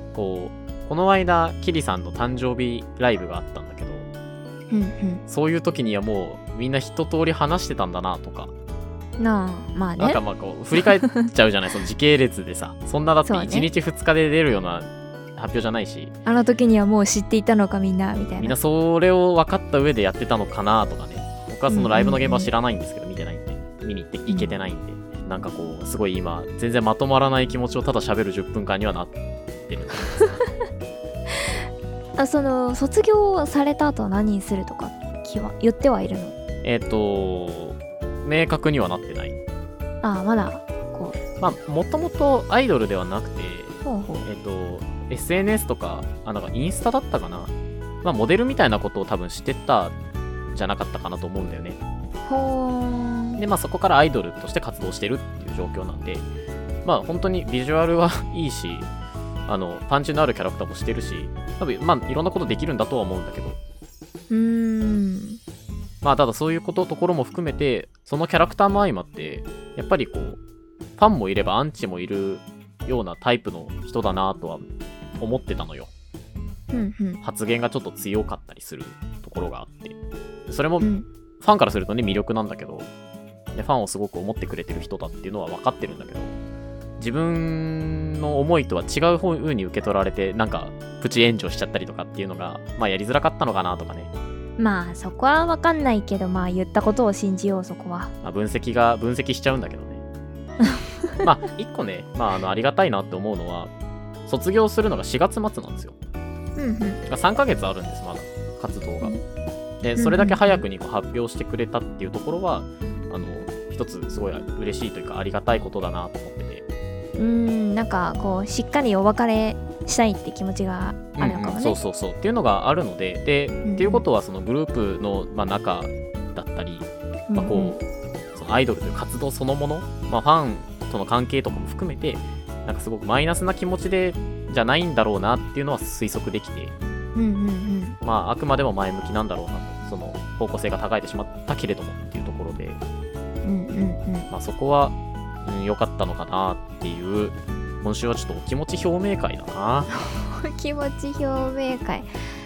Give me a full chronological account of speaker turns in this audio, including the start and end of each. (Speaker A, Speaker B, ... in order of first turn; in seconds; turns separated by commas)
Speaker A: 0.1-4.1, Speaker B: 4.7-5.2, Speaker A: 5.3-8.5, Speaker B: 9.2-10.2, Speaker A: 10.0-16.1, Speaker B: 10.8-11.1, Speaker B: 13.2-13.7, Speaker B: 16.2-18.6, Speaker A: 18.4-30.3, Speaker B: 21.7-22.5, Speaker B: 24.3-24.6, Speaker B: 32.2-36.3, Speaker A: 36.6-39.4, Speaker B: 40.0-41.2, Speaker A: 41.4-47.5, Speaker B: 43.8-44.3, Speaker A: 48.0-49.9, Speaker A: 50.5-51.8, Speaker B: 52.3-53.4, Speaker A: 53.4-56.3, Speaker A: 56.8-58.9, Speaker A: 59.5-63.6, Speaker B: 64.3-65.4, Speaker A: 66.0-70.4, Speaker A: 71.0-74.7, Speaker A: 75.2-75.9, Speaker B: 76.7-77.2, Speaker A: 77.2-80.0, Speaker A: 80.5-80.9, Speaker B: 80.8-81.1, Speaker A: 81.4-82.9, Speaker A: 83.5-86.3, Speaker A: 87.0-94.1, Speaker B: 94.6-98.1, Speaker A: 98.2-100.0, Speaker A: 101.2-103.7, Speaker A: 104.2-106.0, Speaker B: 106.5-107.0, Speaker A: 107.0-109.1, Speaker A: 109.8-116.6, Speaker B: 110.0-110.6, Speaker B: 117.2-121.8, Speaker A: 121.2-127.8, Speaker B: 123.6-124.0, Speaker B: 127.3-127.8, Speaker A: 128.3-136.7, Speaker B: 137.1-138.0, Speaker A: 138.0-142.8, Speaker B: 143.4-144.3, Speaker A: 144.3-149.9, Speaker B: 149.9-152.1